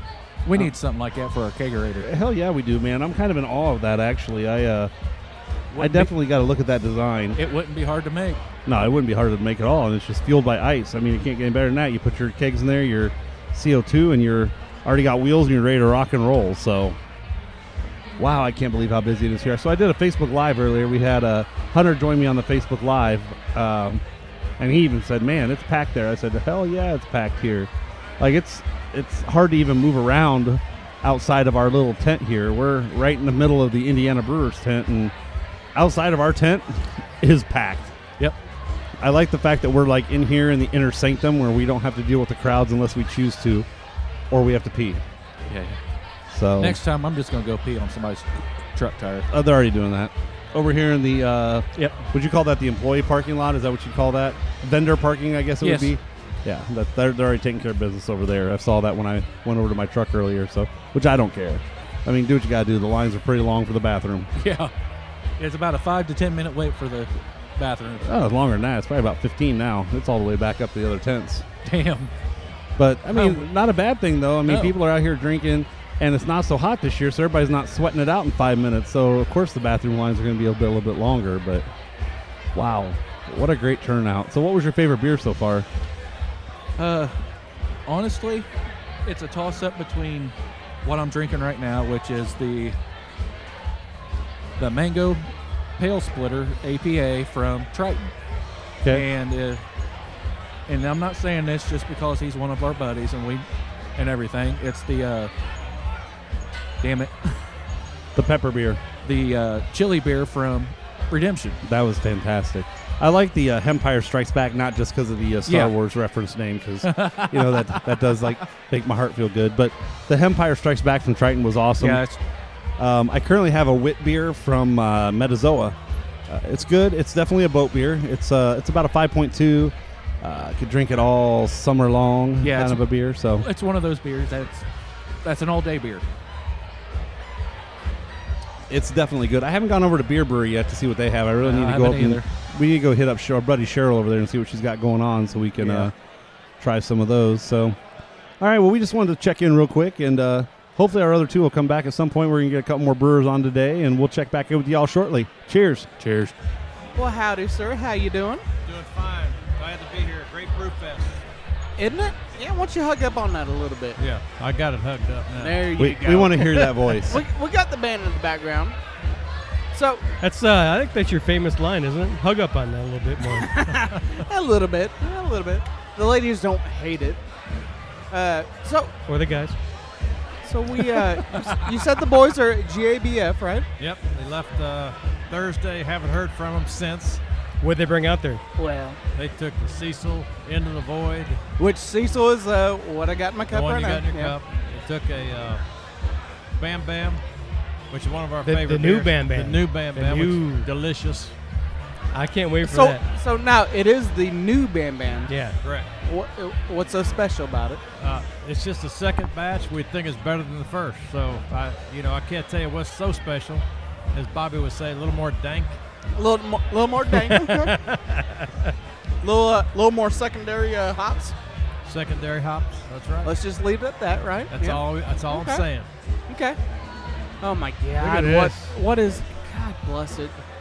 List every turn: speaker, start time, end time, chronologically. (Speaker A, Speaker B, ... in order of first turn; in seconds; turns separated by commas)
Speaker A: 0.4-2.1, Speaker B: 2.0-4.9, Speaker B: 5.7-7.4, Speaker A: 5.7-6.2, Speaker A: 7.3-8.4, Speaker B: 8.7-17.0, Speaker B: 18.2-24.0, Speaker B: 24.6-35.1, Speaker B: 35.7-37.9, Speaker B: 39.0-43.6, Speaker B: 44.3-45.0, Speaker A: 45.5-45.8, Speaker B: 46.3-46.8, Speaker A: 46.6-49.3, Speaker B: 49.3-64.3, Speaker A: 51.7-52.0, Speaker A: 55.6-56.0, Speaker A: 64.4-64.7, Speaker A: 65.4-68.1, Speaker B: 68.0-71.4, Speaker A: 71.6-72.1, Speaker B: 72.8-81.7, Speaker A: 73.1-73.5, Speaker A: 74.5-74.7, Speaker B: 82.5-85.7, Speaker A: 86.8-87.2, Speaker A: 87.8-88.5, Speaker A: 89.0-92.8, Speaker A: 94.6-98.1, Speaker B: 98.8-99.1, Speaker A: 98.9-99.6, Speaker A: 100.7-105.3, Speaker A: 106.8-107.4, Speaker B: 108.1-108.8, Speaker A: 109.0-111.6, Speaker B: 111.6-122.0, Speaker A: 115.5-115.7, Speaker A: 116.8-118.3, Speaker A: 121.8-122.2, Speaker B: 122.8-125.8, Speaker B: 126.3-133.4, Speaker A: 132.4-134.7, Speaker A: 135.2-136.0, Speaker B: 138.7-145.9, Speaker A: 141.4-142.3, Speaker A: 145.6-145.9, Speaker B: 146.6-147.8, Speaker B: 148.4-155.9, Speaker A: 156.0-156.3, Speaker C: 156.9-158.4, Speaker D: 158.6-161.2, Speaker C: 161.8-164.0, Speaker D: 164.0-165.7, Speaker C: 165.3-168.8, Speaker B: 165.8-167.2, Speaker C: 169.7-170.1, Speaker E: 170.2-173.5, Speaker C: 173.4-177.2, Speaker D: 173.7-174.0, Speaker C: 178.1-178.9, Speaker E: 179.1-179.6, Speaker C: 180.4-183.7, Speaker D: 183.8-187.2, Speaker E: 187.6-188.4, Speaker C: 188.6-189.0, Speaker D: 189.1-191.4, Speaker C: 191.6-194.3, Speaker D: 193.5-195.6, Speaker D: 196.5-197.2, Speaker D: 197.9-201.3, Speaker E: 198.4-200.7, Speaker E: 202.1-203.0, Speaker C: 202.6-205.3, Speaker E: 205.3-205.6, Speaker D: 205.6-205.9, Speaker C: 206.0-207.8, Speaker D: 208.0-215.8, Speaker C: 216.1-217.8, Speaker E: 217.1-218.7, Speaker C: 219.2-221.3, Speaker D: 221.8-223.3, Speaker C: 223.2-225.7, Speaker D: 224.5-225.9, Speaker C: 226.3-226.6, Speaker C: 227.4-230.4, Speaker E: 228.0-228.7